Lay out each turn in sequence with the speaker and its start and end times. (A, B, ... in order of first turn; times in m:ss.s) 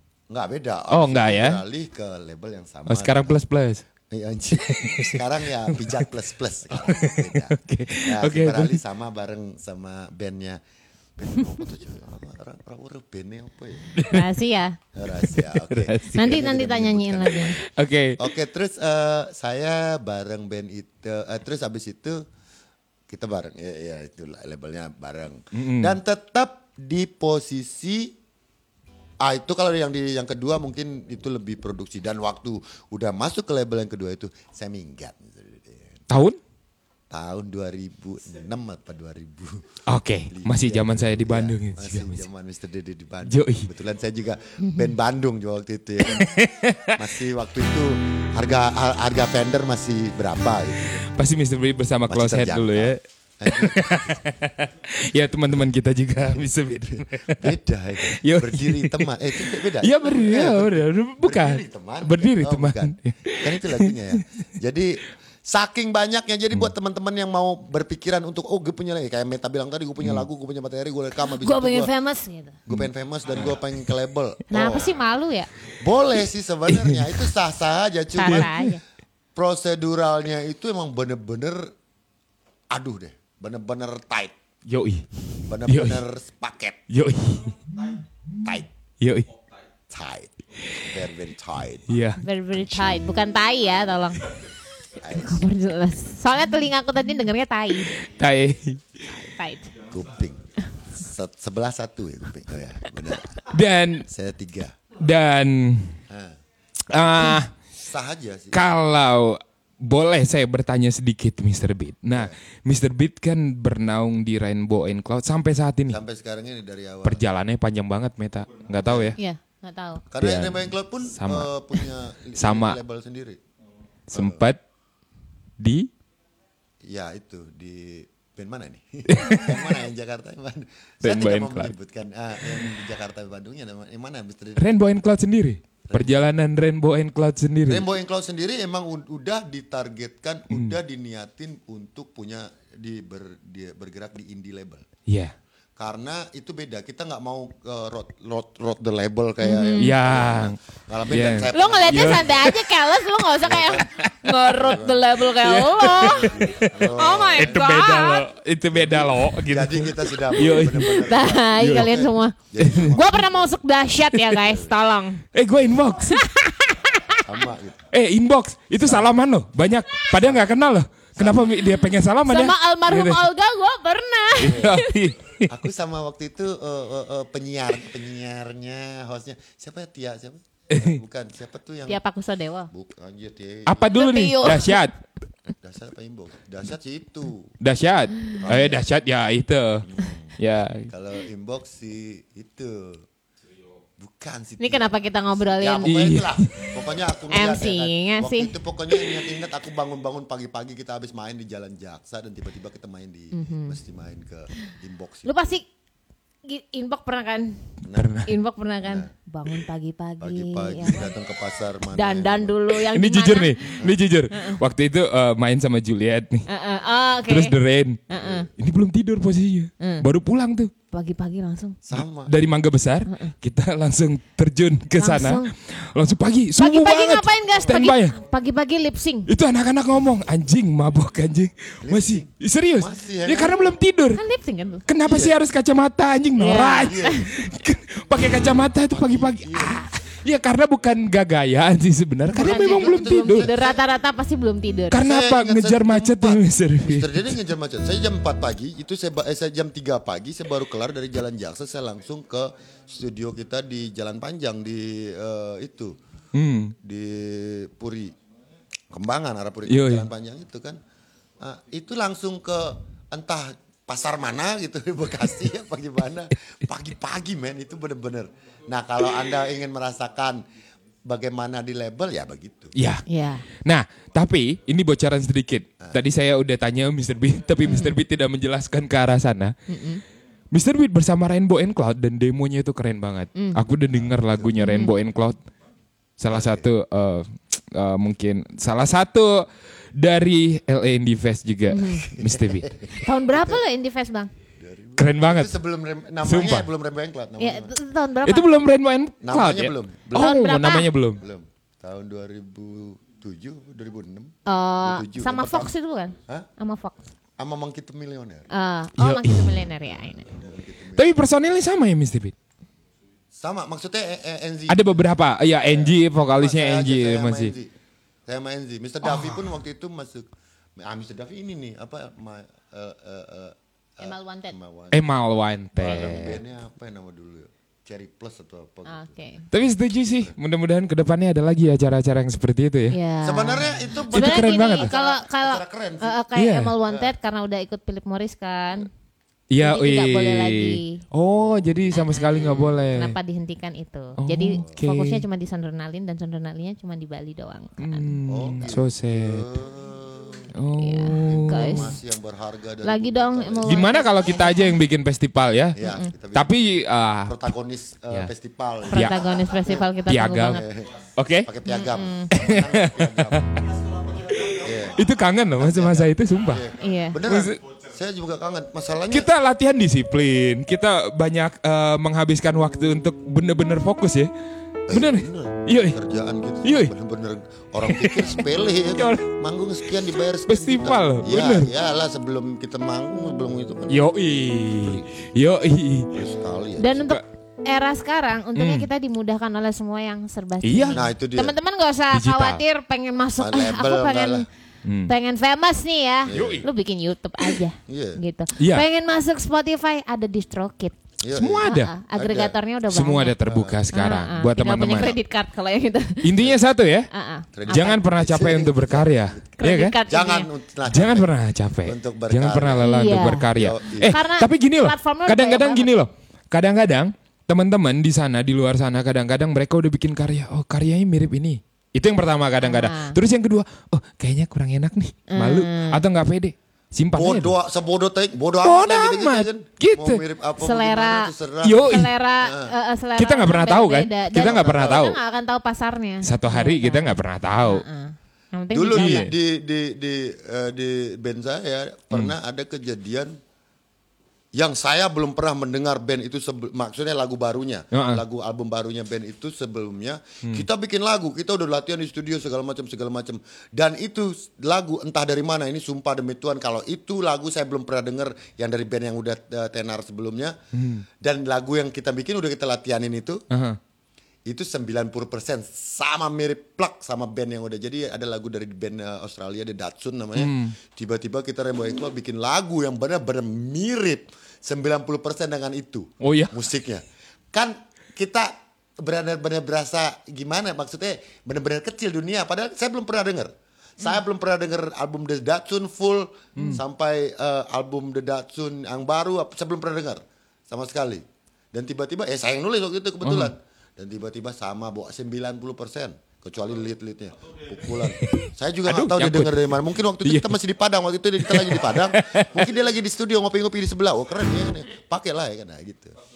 0:00.3-0:03.4 A
0:00.9-0:01.6 B
0:02.9-0:03.8 B
0:04.1-0:10.6 A
0:04.6-0:06.0 B
0:06.7-0:08.8 B
0:11.2-0:14.0 A
0:13.9-0:14.2 B
0:14.0-0:14.8 C
0:14.9-0:22.2 A
0:15.2-0:16.3 B
0:16.1-0:17.6 C
0:17.7-0:18.2 B
0:23.1-0:28.1 A
0:25.5-0:26.0 B
0:29.2-0:36.0 A
0:36.1-0:36.4 B
0:37.1-0:46.4 A
0:39.9-0:42.2 B
0:43.2-0:43.7 B
0:46.0-0:47.0 B
0:46.9-0:51.1 A
0:51.0-1:04.2 B
0:52.1-0:54.2 A
0:56.5-1:11.9 A
1:10.0-1:10.2 B
1:11.2-1:12.6 C
1:12.7-1:15.0 A
1:12.7-1:13.6 B
1:14.5-1:15.5 C
1:15.8-1:18.5 A
1:16.7-1:17.3 B
1:18.1-1:18.8 C
1:18.2-1:18.7 B
1:19.4-1:21.7 A
1:22.7-1:24.3 A
1:24.7-1:25.0 B
1:25.4-1:26.8 A
1:25.6-1:26.0 B
1:26.9-1:27.8 B
1:28.4-1:28.7 A
1:29.0-1:29.3 B
1:29.9-1:32.0 A
1:31.9-1:32.2 B
1:32.2-1:34.3 C
1:32.6-1:33.0 A
1:35.0-1:35.4 A
1:35.1-1:38.0 C
1:38.0-1:39.0 B
1:39.1-1:39.7 C
1:39.9-1:43.5 A
1:43.5-1:44.1 B
1:44.1-1:44.8 A
1:45.0-1:46.0 B
1:46.1-1:46.4 A
1:46.9-1:47.5 B
1:47.3-1:48.6 A
1:48.5-1:56.0 B
1:55.9-1:57.2 A
1:57.0-1:59.2 B
1:58.7-1:59.2 A
1:59.2-2:00.0 C
2:00.1-2:03.4 A
2:00.2-2:02.8 B
2:04.1-2:04.6 B
2:04.1-2:04.4 A
2:05.6-2:05.9 B
2:06.8-2:14.8 A
2:09.1-2:09.8 B
2:11.0-2:11.7 B
2:14.6-2:17.9 B
2:15.8-2:16.2 A
2:17.7-2:24.8 A
2:20.5-2:20.8 B
2:25.1-2:25.3 B
2:25.8-2:32.7 A
2:29.4-2:29.9 C
2:29.8-2:32.6 B
2:31.5-2:36.3 C
2:33.4-2:35.1 A
2:34.0-2:34.4 B
2:35.4-2:41.0 B
2:35.8-2:37.6 A
2:36.9-2:38.2 C
2:38.7-2:43.6 A
2:40.2-2:45.2 C
2:41.6-2:42.0 B
2:42.6-2:42.9 B
2:44.1-2:44.4 B
2:44.4-2:44.7 A
2:45.3-2:46.2 B
2:46.0-2:47.4 C
2:47.2-2:47.8 A
2:47.9-2:53.3 B
2:48.8-2:49.2 A
2:50.0-2:50.5 A
2:51.2-2:51.7 A
2:52.2-2:54.9 C
2:54.4-2:55.5 B
2:54.4-2:54.8 A
2:55.4-3:02.0 A
3:00.7-3:01.0 B
3:01.9-3:02.7 C
3:02.7-3:03.9 A
3:03.7-3:05.0 B
3:03.9-3:04.8 C
3:05.6-3:07.5 A
3:07.6-3:10.9 B
3:08.4-3:08.9 A
3:09.8-3:13.0 A
3:14.0-3:25.3 A
3:14.6-3:16.2 C
3:15.8-3:16.6 B
3:17.3-3:19.2 C
3:23.3-3:23.8 C
3:25.2-3:25.6 C
3:26.4-3:27.6 C
3:27.8-3:28.3 A
3:27.9-3:28.3 B
3:28.2-3:31.1 C
3:28.8-3:29.1 A
3:30.2-3:32.6 A
3:31.9-3:33.8 C
3:32.8-3:36.4 B
3:34.3-3:34.6 C
3:36.5-3:37.6 C
3:37.3-3:40.7 B
3:38.1-3:38.5 C
3:39.8-3:40.0 C
3:40.9-3:41.8 C
3:41.8-3:42.3 A
3:41.9-3:48.2 B
3:43.1-3:43.3 C
3:45.0-3:45.5 C
3:46.6-3:49.3 C
3:49.3-3:54.2 B
3:51.8-3:53.7 A
3:54.1-3:54.8 C
3:54.9-4:03.5 B
3:55.0-3:55.4 A
3:56.4-3:57.3 C
3:56.6-3:57.3 A
3:58.9-3:59.8 A
4:02.3-4:03.8 A
4:02.3-4:05.0 C
4:04.9-4:07.4 B
4:05.0-4:15.9 A
4:16.3-4:16.8 B
4:16.8-4:18.1 A
4:18.9-4:20.8 A
4:19.7-4:20.1 B
4:21.4-4:30.4 A
4:31.0-4:32.7 A
4:32.7-4:33.0 B
4:33.1-4:33.4 C
4:33.6-4:39.5 B
4:37.6-4:38.0 C
4:39.7-4:40.0 C
4:40.5-4:45.4 B
4:43.3-4:43.6 C
4:44.2-4:44.6 A
4:44.6-4:44.9 C
4:46.2-4:52.8 B
4:46.3-4:46.7 A
4:51.7-4:52.1 C
4:52.0-4:53.6 A
4:52.9-4:54.3 C
4:54.6-4:57.7 A
4:55.0-4:55.5 B
4:56.2-4:56.7 B
4:57.4-4:58.6 C
4:58.2-5:01.2 B
4:59.2-5:00.4 A
5:00.1-5:00.9 C
5:01.2-5:05.7 A
5:04.4-5:07.0 C
5:07.4-5:08.5 A
5:08.5-5:10.3 C
5:09.0-5:09.6 B
5:09.9-5:11.2 A
5:10.9-5:12.3 B
5:13.3-5:15.0 A
5:14.7-5:17.5 B
5:15.6-5:17.7 A
5:18.3-5:25.0 A
5:24.0-5:24.6 C
5:24.9-5:26.4 B
5:25.8-5:29.1 A
5:28.8-5:29.4 C
5:29.5-5:33.0 B
5:32.9-5:38.9 C
5:33.2-5:36.2 A
5:34.1-5:34.9 B
5:36.4-5:36.8 B
5:36.8-5:37.1 A
5:39.5-5:43.1 B
5:39.6-5:41.0 C
5:41.9-5:48.2 C
5:44.2-5:45.2 B
5:47.8-5:49.5 B
5:48.3-5:50.5 A
5:50.5-5:52.0 B
5:50.8-5:52.0 C
5:51.2-5:53.9 A
5:52.8-5:54.8 C
5:53.6-5:55.8 B
5:55.8-5:56.6 A
5:55.8-5:56.1 C
5:56.3-5:57.3 B
5:57.3-6:05.0 A
5:58.9-6:00.6 C
5:58.9-5:59.2 B
6:00.0-6:00.6 B
6:01.2-6:01.5 B
6:01.6-6:02.3 C
6:02.3-6:03.4 B
6:04.3-6:06.7 B
6:05.6-6:09.3 A
6:06.7-6:07.2 C
6:07.2-6:07.6 B
6:09.1-6:14.3 B
6:14.9-6:24.0 A
6:14.9-6:16.0 B
6:16.6-6:16.9 B
6:17.8-6:19.2 B
6:20.4-6:21.7 B
6:23.9-6:26.2 B
6:24.8-6:25.3 A
6:26.1-6:27.1 A
6:26.8-6:34.4 C
6:28.6-6:28.9 B
6:30.6-6:31.0 B
6:30.9-6:31.5 A
6:32.1-6:32.6 B
6:33.4-6:34.4 A
6:34.8-6:35.1 B
6:35.0-6:41.0 C
6:36.3-6:36.6 A
6:36.3-6:36.7 B
6:37.8-6:38.2 A
6:38.6-6:38.8 B
6:41.2-6:42.6 A
6:41.3-6:41.9 B
6:41.6-6:43.4 C
6:42.9-6:45.2 B
6:43.4-6:43.8 A
6:43.9-6:46.3 C
6:46.2-6:47.1 B
6:46.4-6:46.6 A
6:47.1-6:48.0 C
6:47.5-6:51.3 A
6:47.7-6:50.0 B
6:49.6-6:50.5 C
6:50.9-7:07.5 B
6:51.8-6:52.9 A
6:52.8-6:55.9 C
6:53.5-6:54.2 A
7:02.6-7:03.2 C
7:05.3-7:06.0 C
7:07.1-7:12.7 A
7:08.6-7:10.2 B
7:10.6-7:19.3 C
7:11.6-7:12.1 B
7:13.2-7:15.2 B
7:14.3-7:15.1 A
7:16.2-7:17.8 B
7:18.7-7:23.4 A
7:18.9-7:19.3 B
7:24.5-7:40.6 A
7:27.9-7:28.2 B
7:40.7-7:41.0 B
7:41.2-7:43.4 A
7:43.5-7:43.8 B
7:44.5-8:26.2 A
7:50.3-7:50.8 B
7:56.2-7:56.5 B
8:13.2-8:13.5 B
8:18.0-8:19.7 B
8:20.2-8:20.6 B
8:21.4-8:22.7 B